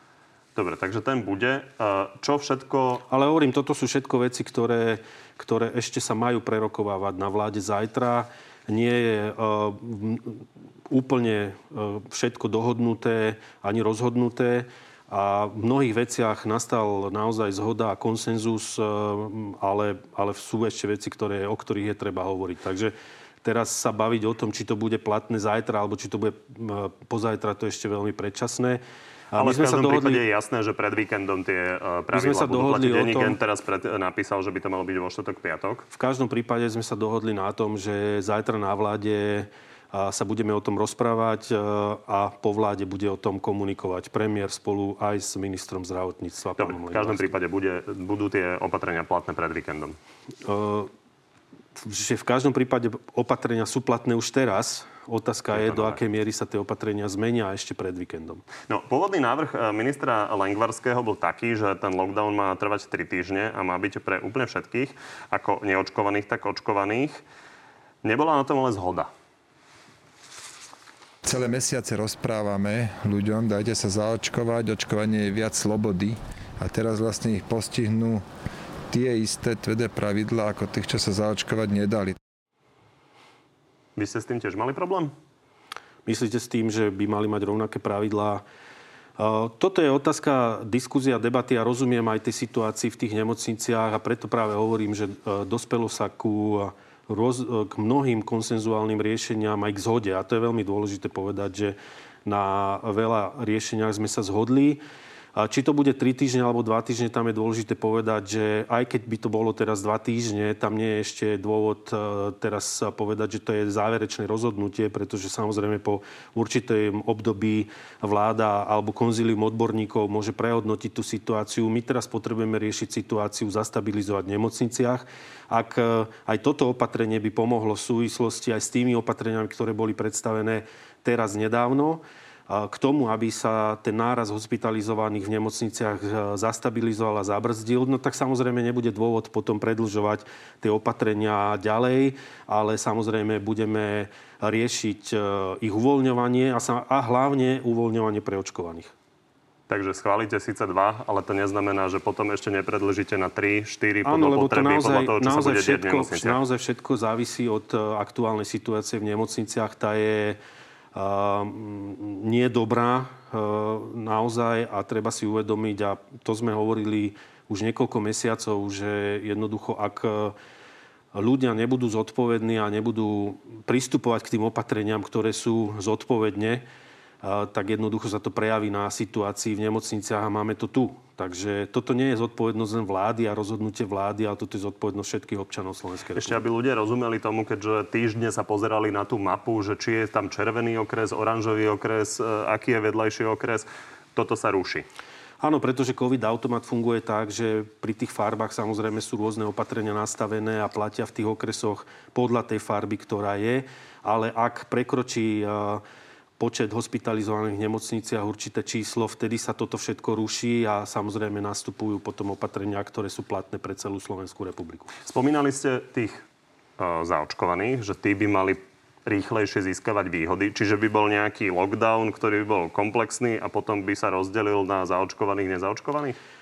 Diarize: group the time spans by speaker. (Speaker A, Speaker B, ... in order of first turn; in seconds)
Speaker A: 0.5-3.0, 29.4-35.9, 46.6-50.0, 55.5-56.0, 58.7-67.2, 68.0-69.1, 84.0-85.1, 149.7-156.4, 186.2-194.8, 215.1-216.2, 216.8-226.2
Speaker B: 3.1-30.2, 32.1-33.4, 35.9-47.3, 50.4-50.9, 51.8-58.4, 86.0-88.4, 89.2-104.8, 105.3-148.9, 154.0-160.4, 160.9-170.3, 171.1-176.6, 177.2-186.4, 195.4-205.8, 206.4-214.9
Speaker C: 71.2-78.2, 78.9-82.2